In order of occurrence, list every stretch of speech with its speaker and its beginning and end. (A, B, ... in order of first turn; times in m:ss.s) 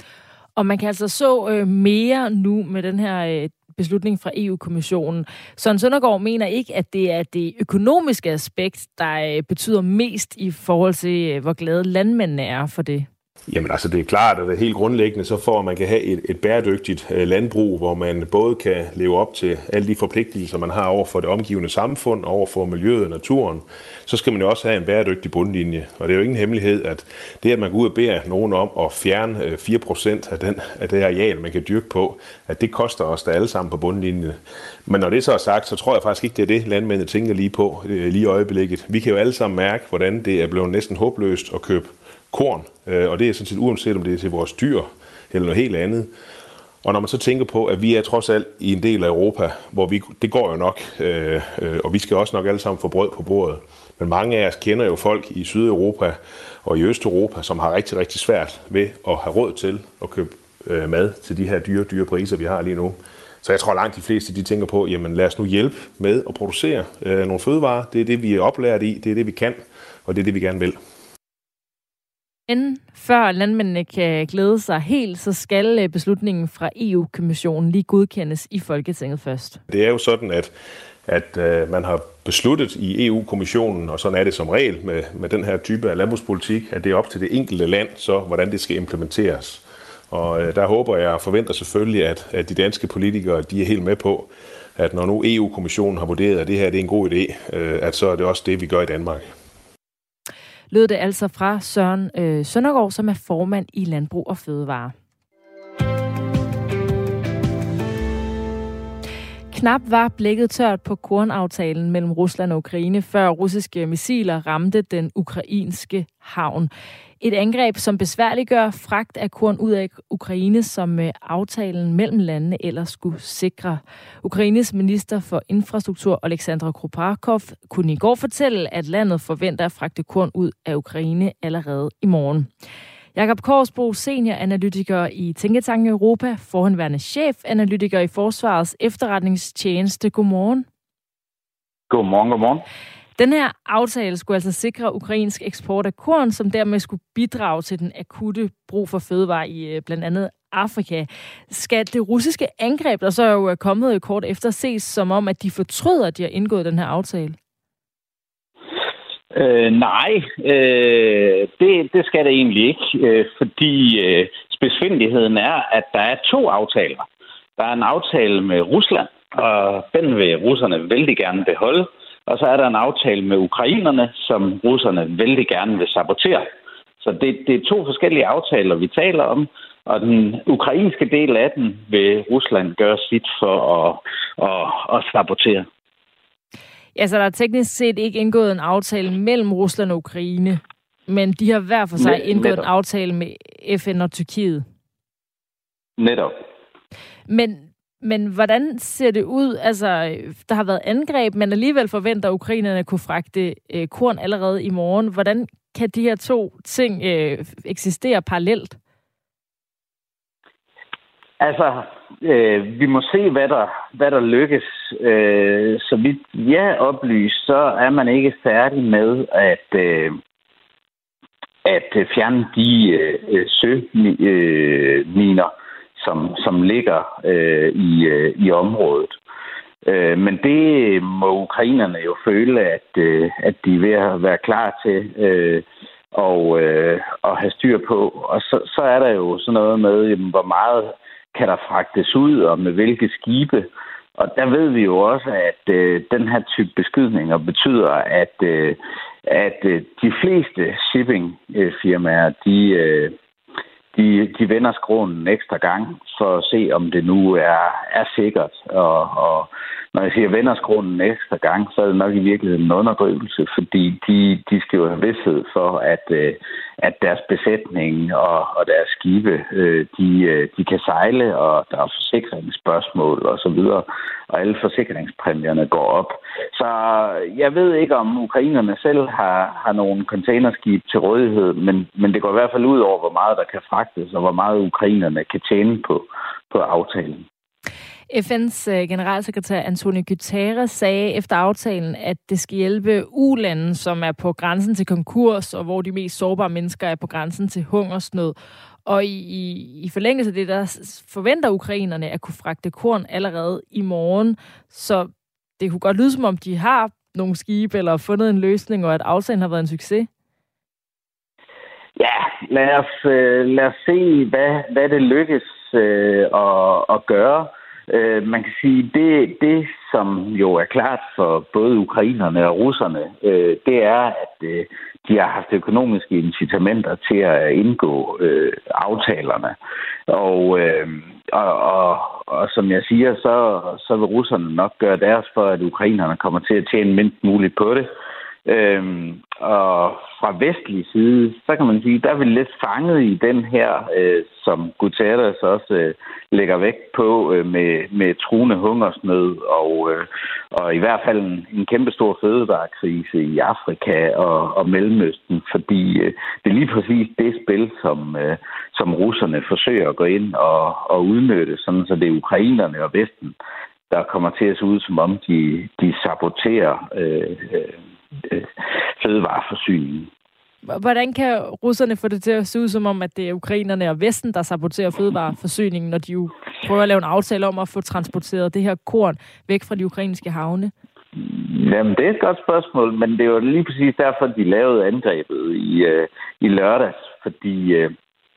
0:00.6-0:13.1 A
0:13.5-0:46.1 B
0:46.8-1:10.8 B
1:12.5-1:19.6 A
1:19.7-1:20.5 B
1:21.1-1:39.3 B
1:40.7-1:45.0 A
1:49.5-1:56.7 A
1:57.2-2:12.5 A
2:13.2-2:20.7 A
2:21.9-2:22.6 C
2:23.2-2:37.4 A
2:39.3-2:47.1 C
2:47.6-2:56.5 C
2:57.0-3:05.7 C
3:07.0-3:14.6 A
3:12.0-3:12.7 C
3:16.0-3:16.3 C
3:17.3-3:28.8 A
3:31.4-3:40.2 C
3:41.6-3:49.2 C
3:49.8-4:13.2 C
4:13.9-4:47.3 C
4:48.1-4:58.4 A
4:58.9-5:10.1 A
5:12.0-5:29.6 C
5:30.1-5:37.9 C
5:38.5-6:03.4 C
6:03.9-6:08.5 C
6:09.0-6:10.1 C
6:10.6-6:20.7 A
6:21.2-6:27.9 C